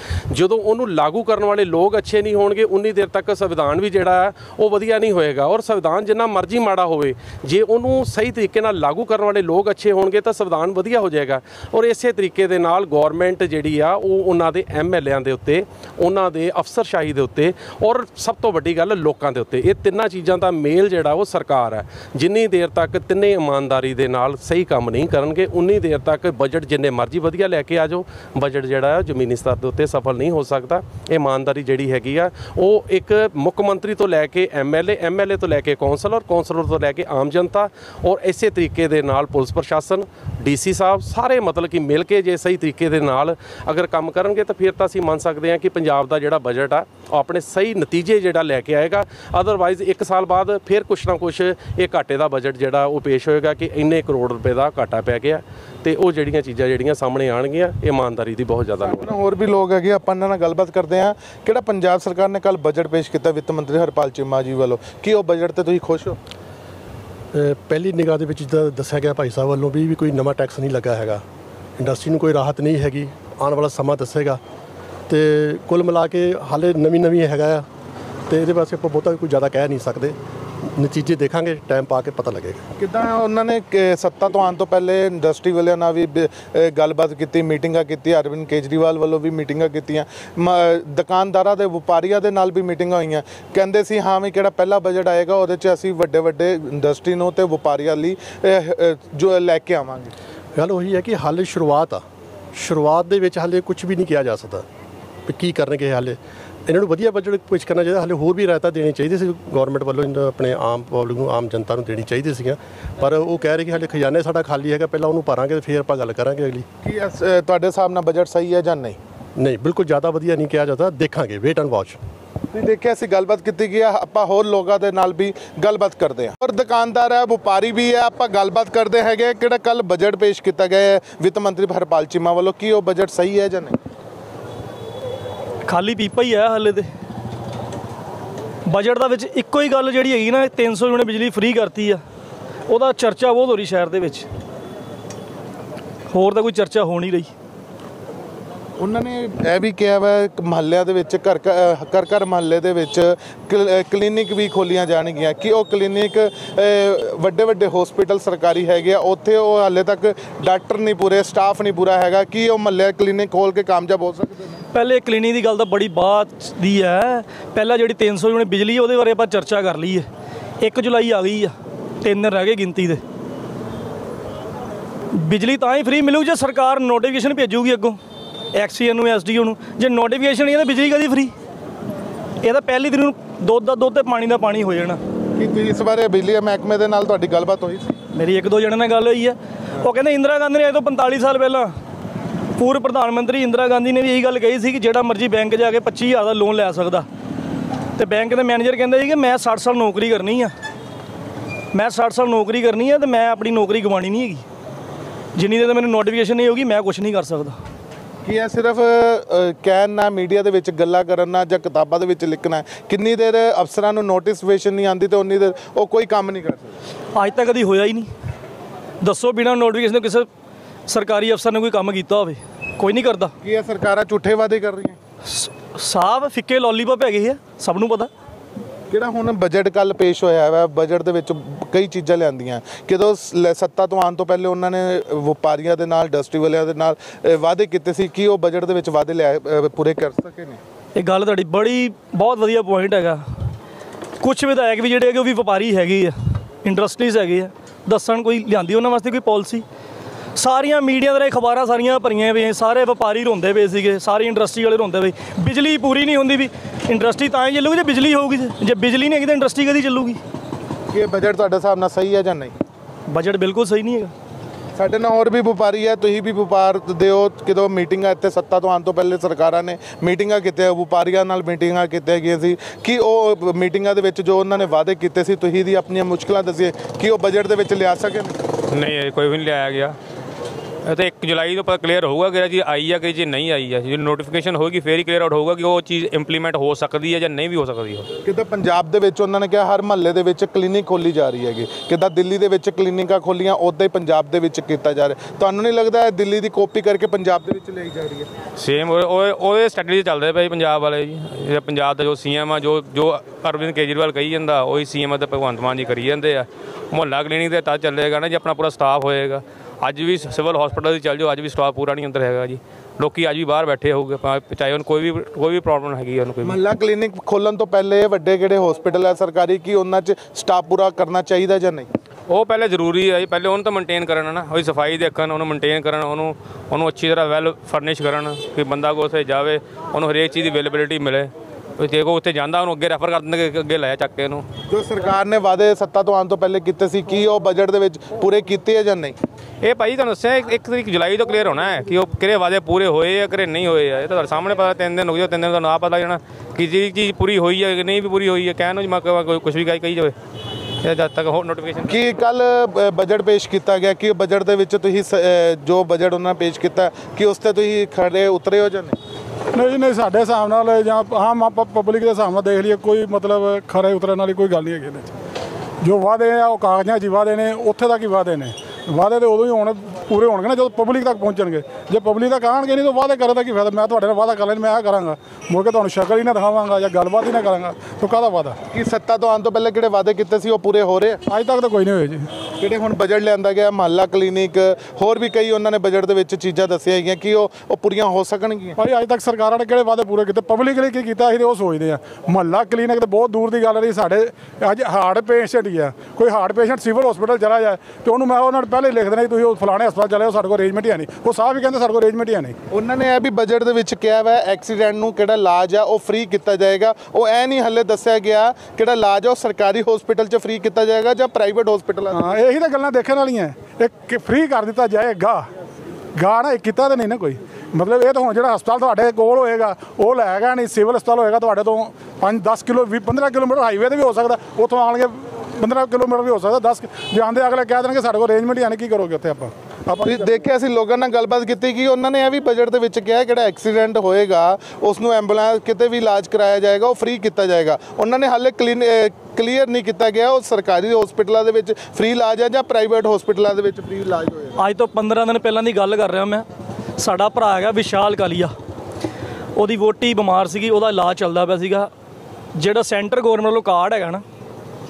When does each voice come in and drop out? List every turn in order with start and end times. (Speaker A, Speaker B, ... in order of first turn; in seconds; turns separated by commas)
Speaker A: 0.3-59.1, Speaker B: 58.8-66.2, Speaker C: 67.3-71.2, Speaker C: 71.8-74.4, Speaker C: 75.1-77.7, Speaker C: 78.3-82.7, Speaker B: 82.8-100.1, Speaker C: 100.5-104.6, Speaker C: 105.3-116.7, Speaker B: 116.8-119.0, Speaker C: 119.3-122.0, Speaker B: 122.5-133.8, Speaker D: 135.7-136.9, Speaker D: 138.7-142.0, Speaker D: 142.7-144.2, Speaker D: 146.1-147.3, Speaker B: 148.8-164.6, Speaker D: 164.7-170.1, Speaker D: 170.6-173.0, Speaker D: 175.1-178.0, Speaker D: 178.5-181.3, Speaker D: 182.4-185.0, Speaker B: 185.3-187.9, Speaker D: 188.1-191.7, Speaker D: 192.6-197.1, Speaker D: 197.9-200.5, Speaker D: 201.7-204.4, Speaker D: 205.3-207.6, Speaker B: 208.2-216.8, Speaker D: 217.1-218.1, Speaker D: 219.0-220.3, Speaker D: 220.9-223.3, Speaker B: 223.4-225.0, Speaker D: 225.3-228.1, Speaker B: 228.9-240.6, Speaker D: 240.9-243.2, Speaker D: 244.2-249.6, Speaker D: 250.3-260.2, Speaker B: 260.9-262.5, Speaker D: 263.1-264.1, Speaker B: 264.8-278.4, Speaker E: 278.7-280.0, Speaker E: 280.8-288.1, Speaker B: 288.2-298.3, Speaker E: 298.6-316.5, Speaker B: 316.4-321.9, Speaker E: 322.3-334.4, Speaker B: 334.7-339.2, Speaker E: 339.6-350.1, Speaker E: 350.8-351.9, Speaker B: 351.8-358.9, Speaker F: 359.5-365.1, Speaker F: 365.8-378.6, Speaker B: 378.7-381.2, Speaker F: 381.2-382.3, Speaker B: 382.6-388.8, Speaker F: 388.8-402.6, Speaker B: 402.7-412.4, Speaker F: 412.1-415.4, Speaker F: 416.1-430.3, Speaker B: 430.0-444.6, Speaker D: 444.6-446.4, Speaker D: 447.0-448.5, Speaker D: 449.6-451.9, Speaker D: 452.5-454.2